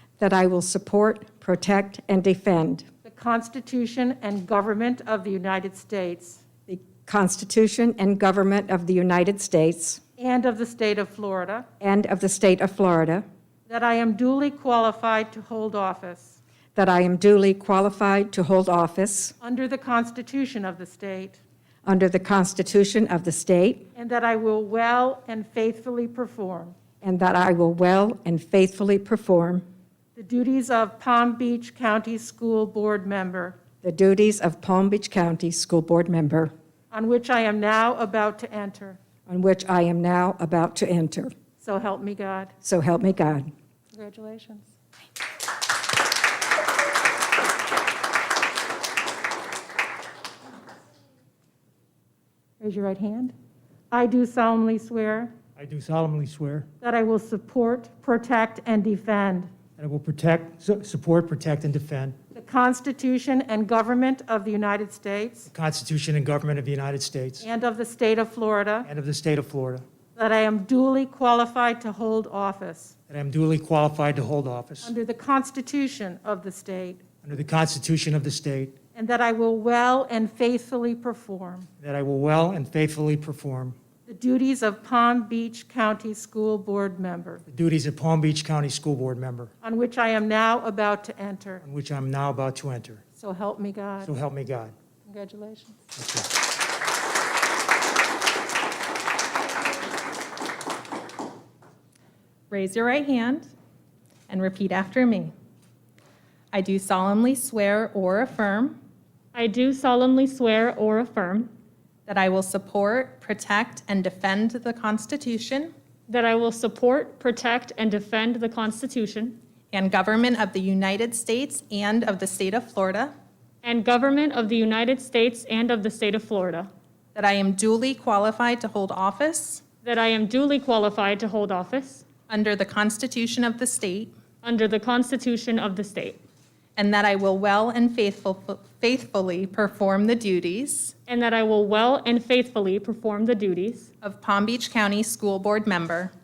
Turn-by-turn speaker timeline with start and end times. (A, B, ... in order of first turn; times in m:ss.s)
0:00.2-0:02.9 A
0:03.0-0:06.4 B
0:06.7-0:10.0 A
0:10.2-0:11.6 B
0:11.8-0:13.2 A
0:13.7-0:16.4 B
0:16.8-0:19.4 A
0:19.4-0:21.4 B
0:21.8-0:23.9 A
0:24.0-0:26.8 B
0:27.0-0:29.6 A
0:30.2-0:33.6 B
0:33.8-0:36.5 A
0:36.9-0:39.0 B
0:39.3-0:41.3 A
0:41.6-0:42.5 B
0:42.6-0:43.5 A
0:43.9-0:44.7 B
0:52.6-0:53.3 B
0:53.9-0:55.3 B
0:55.6-0:56.7 C
0:56.8-0:59.5 B
0:59.8-1:02.2 C
1:02.3-1:05.5 B
1:05.5-1:07.4 C
1:07.4-1:08.9 B
1:08.9-1:09.9 C
1:10.2-1:12.9 B
1:13.1-1:14.9 C
1:14.8-1:17.0 B
1:17.2-1:18.8 C
1:19.0-1:21.7 B
1:21.8-1:23.8 C
1:24.1-1:27.4 B
1:27.5-1:29.5 C
1:29.6-1:31.6 B
1:31.6-1:33.0 C
1:33.2-1:34.1 B
1:34.0-1:34.8 C
1:35.1-1:35.8 B
1:36.0-1:36.3 C
1:42.5-1:43.5 D
1:44.3-1:45.3 D
1:46.5-1:48.8 D
1:49.3-1:51.5 E
1:52.1-1:55.7 D
1:56.1-1:59.4 E
1:59.7-2:03.1 D
2:03.6-2:06.7 E
2:07.2-2:09.6 D
2:09.8-2:12.0 E
2:12.3-2:14.1 D
2:14.4-2:16.2 E
2:16.8-2:20.9 D
2:21.1-2:23.9 E
2:24.0-2:26.1 D